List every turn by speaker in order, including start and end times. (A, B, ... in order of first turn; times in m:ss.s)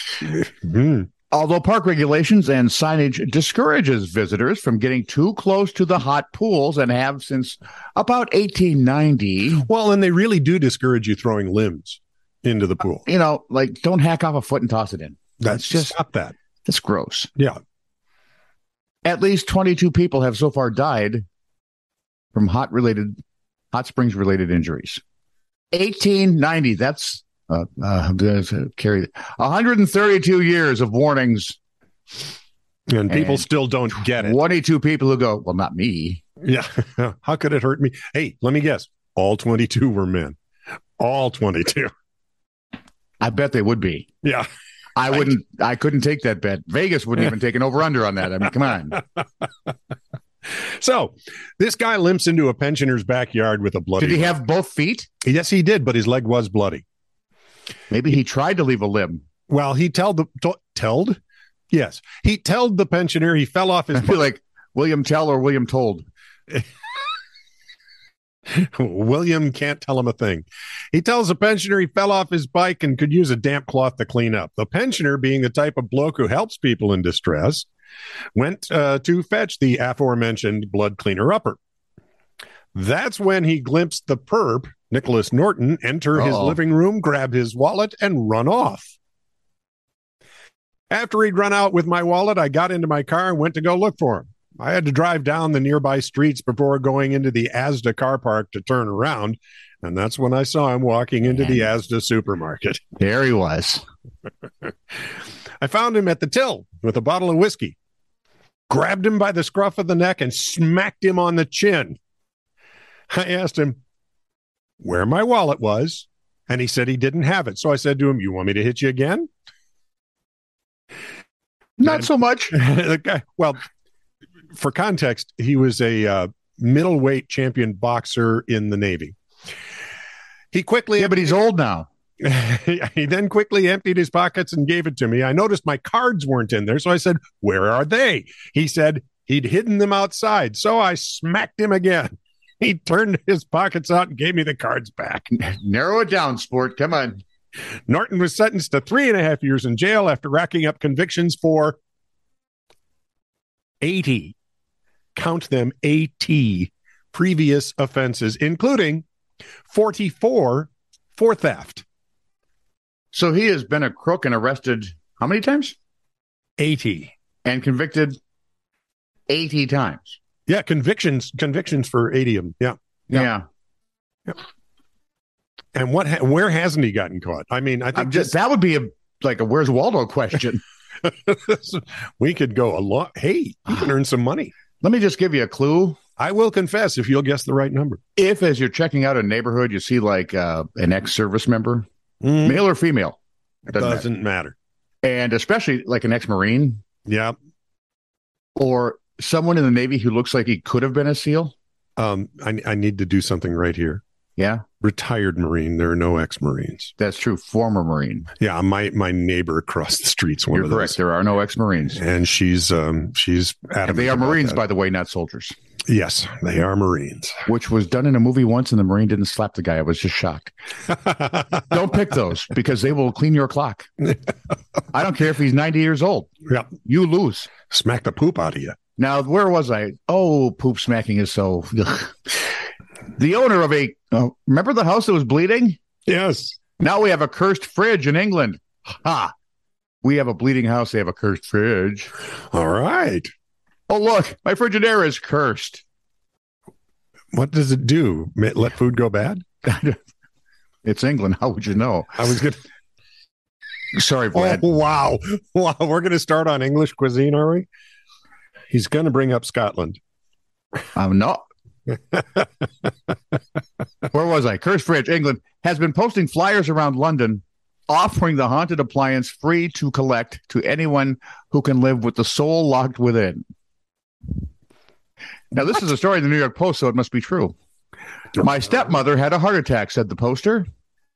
0:00.3-0:01.1 A
0:01.3-0:09.7 B
0:09.6-0:13.1 A
0:13.0-0:16.0 B
0:15.4-0:16.3 A
0:16.7-0:17.3 B
0:19.0-0:21.2 B
0:22.3-0:23.2 B
0:23.7-0:25.0 B
0:25.7-0:31.6 B
0:32.9-0:34.4 A
0:33.1-0:33.5 B
0:34.0-0:36.2 B
0:36.4-0:40.4 A
0:41.0-0:41.9 A
0:43.2-0:44.1 B
0:45.0-0:49.0 B
0:50.6-0:54.4 A
0:54.0-0:55.1 B
0:55.2-0:56.8 A
0:57.9-0:59.2 B
0:59.5-1:01.2 A
1:01.7-1:04.2 A
1:04.0-1:06.1 B
1:08.5-1:17.7 A
1:18.4-1:21.6 A
1:22.8-1:28.9 A
1:26.2-1:26.6 B
1:30.9-1:42.8 A
1:41.4-1:41.6 B
1:43.0-1:43.8 B
1:45.6-1:47.8 A
1:48.7-1:52.0 A
1:53.1-1:53.8 A
1:54.8-1:59.3 A
2:01.8-2:02.6 B
2:01.9-2:03.6 A
2:04.6-2:09.2 A
2:10.5-2:11.4 A
2:11.0-2:11.9 B
2:12.2-2:25.3 A
2:25.3-2:27.2 B
2:27.9-2:31.8 A
2:33.8-2:34.4 A
2:35.2-2:39.0 A
2:39.7-2:41.8 A
2:43.1-2:45.8 B
2:46.6-2:47.1 A
2:47.4-2:48.2 B
2:49.3-2:50.2 B
2:50.5-2:53.3 A
2:53.1-2:53.4 B
2:55.8-2:58.3 A
2:57.9-3:00.6 B
3:01.0-3:04.5 A
3:04.8-3:06.0 B
3:06.2-3:08.0 A
3:08.2-3:11.8 B
3:12.2-3:12.6 A
3:12.4-3:13.2 B
3:13.7-3:14.6 A
3:13.7-3:14.1 B
3:15.0-3:16.8 B
3:17.1-3:17.4 A
3:18.6-3:21.5 B
3:22.0-3:24.0 A
3:24.4-3:24.6 B
3:24.8-3:26.9 A
3:27.0-3:28.3 B
3:28.4-3:31.0 A
3:30.5-3:32.0 B
3:32.0-3:34.6 A
3:33.9-3:35.6 B
3:35.9-3:37.4 A
3:37.5-3:40.5 B
3:41.7-3:43.9 B
3:44.9-3:46.3 B
3:46.8-3:47.5 B
3:47.7-3:48.8 A
3:49.0-3:52.4 B
3:53.2-3:55.8 B
3:56.1-3:56.6 A
3:56.8-3:59.3 B
4:00.0-4:02.1 B
4:02.5-4:03.3 A
4:03.9-4:05.8 B
4:07.3-4:09.4 A
4:09.6-4:10.0 B
4:10.8-4:12.2 B
4:12.2-4:12.6 A
4:13.9-4:14.6 B
4:14.3-4:17.7 A
4:18.7-4:20.0 A
4:21.0-4:21.4 B
4:24.1-4:33.4 B
4:35.5-4:37.6 B
4:38.4-4:40.7 B